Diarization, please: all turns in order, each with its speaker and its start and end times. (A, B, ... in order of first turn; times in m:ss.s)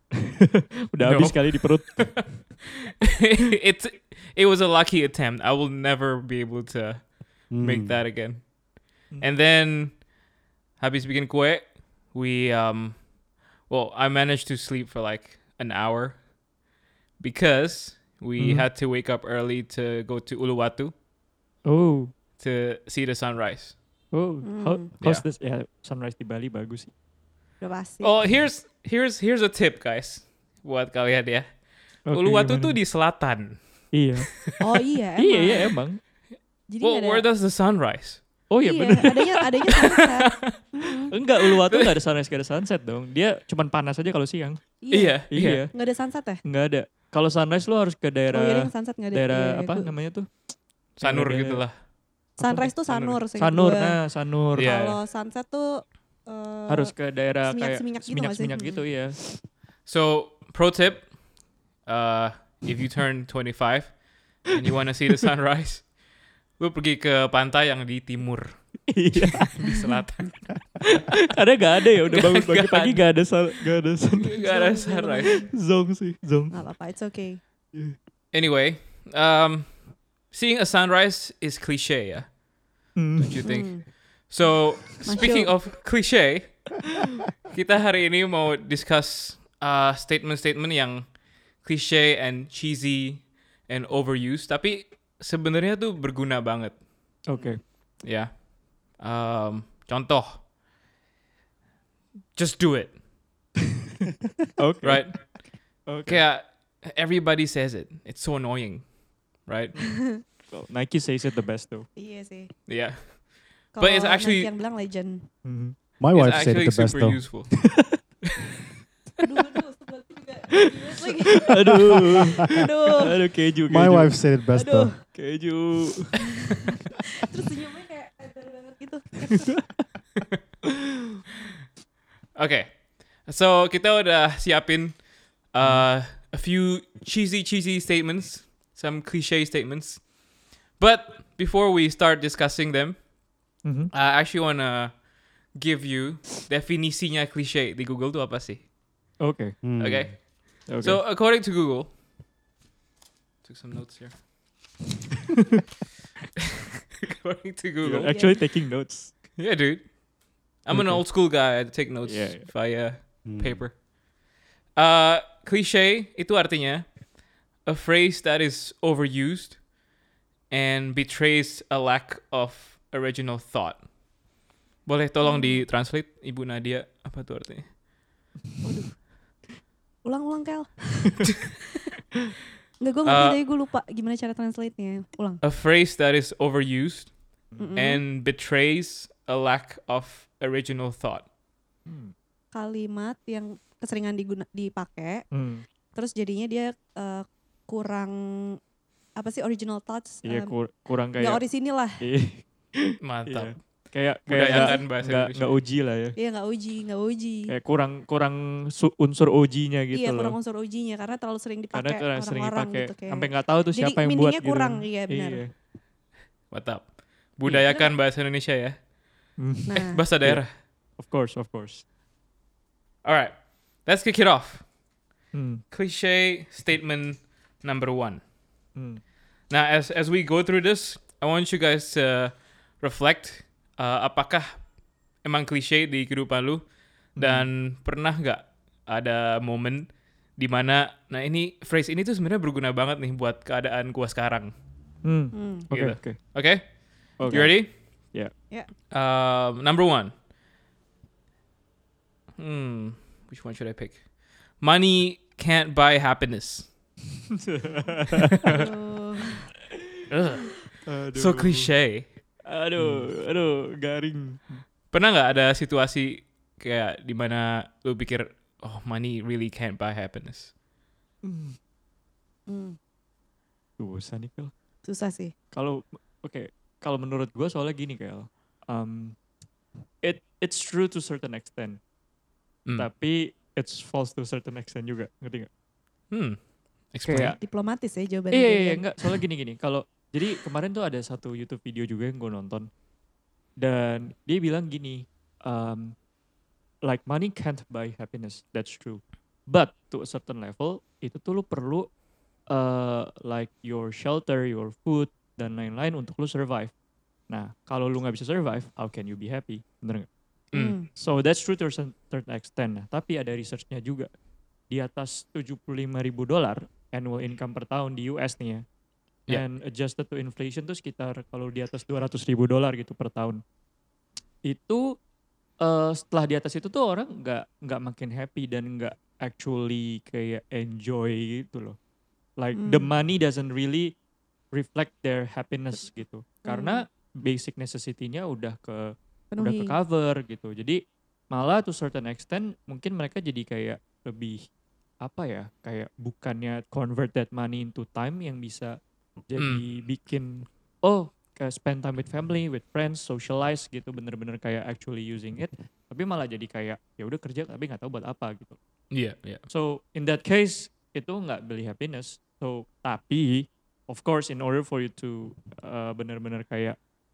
0:00.4-0:02.4 A
0:01.0-0:10.0 B
0:07.5-0:08.0 C
0:10.8-0:13.0 B
0:13.6-0:16.2 B
0:17.2-0:21.0 B
0:18.4-0:18.7 A
0:21.6-0:22.1 A
0:22.4-0:23.8 B
0:24.1-0:26.9 A
0:24.4-0:24.9 D
0:25.0-0:25.3 B
0:27.6-0:28.2 D
0:28.0-0:31.5 B
0:32.1-0:32.8 A
0:32.1-0:33.6 B
0:33.9-0:34.5 A
0:34.6-0:35.8 D
0:35.2-0:36.0 A
0:36.7-0:37.3 D
0:36.8-0:38.2 B
0:38.5-0:39.4 A
0:38.6-0:41.1 D
0:39.7-0:40.7 B
0:41.1-0:44.6 A
0:41.4-0:41.9 B
0:44.8-0:45.2 D
0:44.9-0:45.6 B
0:45.3-0:45.7 A
0:45.7-0:46.4 D
0:46.4-0:50.4 A
0:48.3-0:49.9 D
0:51.0-0:51.7 A
0:51.0-0:51.8 B
0:52.4-0:54.0 D
0:52.4-0:52.8 A
0:52.9-0:53.2 B
0:53.3-0:54.7 A
0:54.6-0:55.0 B
0:54.6-0:58.8 D
0:56.7-0:59.3 A
0:59.9-1:01.2 B
1:01.8-1:05.9 B
1:06.6-1:08.6 B
1:08.9-1:09.8 A
1:09.3-1:10.8 B
1:10.9-1:14.5 A
1:12.1-1:13.2 B
1:14.2-1:15.4 B
1:14.4-1:15.5 D
1:15.2-1:16.6 A
1:16.5-1:17.4 D
1:18.3-1:22.3 B
1:23.0-1:23.5 A
1:23.2-1:26.8 B
1:23.4-1:23.9 D
1:25.0-1:25.6 D
1:27.5-1:36.8 B
1:37.3-1:37.6 A
1:38.0-1:40.5 B
1:42.4-1:43.0 B
1:44.6-1:46.2 A
1:44.8-1:49.8 B
1:50.0-1:51.9 A
1:52.0-1:52.5 D
1:52.7-1:54.5 B
1:53.7-1:55.3 D
1:55.4-1:55.8 A
1:56.0-1:57.2 C
1:56.1-1:57.5 B
1:59.2-2:01.5 D
2:01.2-2:04.3 A
2:02.3-2:03.2 D
2:03.7-2:04.9 C
2:04.5-2:05.0 D
2:05.1-2:06.2 A
2:06.2-2:06.6 D
2:07.2-2:09.6 D
2:12.4-2:20.1 B
2:20.8-2:23.1 B
2:23.6-2:23.9 A
2:23.9-2:28.7 B
2:29.2-2:29.6 A
2:29.6-2:30.2 C
2:29.8-2:31.9 B
2:30.7-2:31.0 A
2:33.4-2:34.2 B
2:37.0-2:38.1 B
2:37.8-2:39.1 A
2:38.0-2:38.4 D
2:39.4-2:39.9 B
2:40.6-2:43.8 B
2:40.7-2:41.0 A
2:42.0-2:42.5 A
2:43.2-2:43.7 C
2:44.8-2:47.0 B
2:47.6-2:49.6 B
2:50.5-2:53.9 B
2:54.8-2:57.8 B
2:55.2-2:55.7 D
2:58.6-2:59.1 D
3:00.0-3:01.4 D
3:02.8-3:05.4 D
3:03.0-3:03.5 B
3:05.4-3:11.3 B
3:07.5-3:07.8 A
3:07.6-3:08.0 D
3:11.9-3:12.1 A
3:12.5-3:15.2 D
3:15.3-3:15.6 A
3:16.0-3:18.6 D
3:19.2-3:20.6 D
3:20.2-3:21.5 A
3:21.1-3:22.0 D
3:22.0-3:26.2 A
3:23.0-3:23.6 B
3:24.3-3:25.6 B
3:24.4-3:24.8 D
3:26.2-3:27.5 D
3:27.5-3:30.4 A
3:29.9-3:35.4 D
3:31.7-3:35.5 A
3:36.5-3:38.8 B
3:37.7-3:38.0 D
3:39.4-3:41.8 A
3:39.7-3:40.0 D
3:39.9-3:40.5 B
3:43.0-3:44.7 B
3:45.3-3:45.6 A
3:45.7-3:48.2 B
3:48.8-3:49.0 A
3:49.5-3:54.6 B
3:55.2-4:04.5 B
3:57.2-3:57.5 A
4:05.0-4:06.2 A
4:05.3-4:05.7 D
4:05.7-4:08.1 B
4:07.2-4:08.3 A
4:08.9-4:10.2 B
4:12.4-4:16.7 B
4:17.5-4:18.7 A
4:18.5-4:19.5 D
4:20.1-4:20.6 B
4:20.8-4:21.7 A
4:21.1-4:22.1 B
4:22.4-4:24.6 A
4:24.9-4:30.5 B
4:31.2-4:31.6 A
4:32.5-4:32.8 D
4:33.8-4:34.5 A
4:34.8-4:35.3 D
4:35.5-4:39.2 A
4:40.0-4:41.8 A
4:42.8-4:45.5 A
4:46.1-4:46.4 B
4:46.9-4:47.4 B
4:47.1-4:47.4 A
4:47.4-4:48.9 D
4:48.3-4:52.7 A
4:53.6-4:56.0 A
4:56.8-5:01.9 A
5:02.5-5:06.7 A
5:07.3-5:10.1 A
5:10.5-5:10.8 B
5:10.5-5:10.9 D
5:10.9-5:14.1 A
5:14.7-5:18.6 A
5:19.3-5:23.4 A
5:24.4-5:24.9 A
5:25.6-5:31.8 A
5:32.4-5:33.9 A
5:32.5-5:32.9 D
5:34.5-5:40.8 A
5:36.4-5:36.8 D
5:39.3-5:39.8 D
5:41.3-5:44.4 A
5:45.0-5:48.8 A
5:49.3-5:58.6 A
5:49.4-5:49.6 B
5:58.9-5:59.4 B
5:59.5-6:06.8 A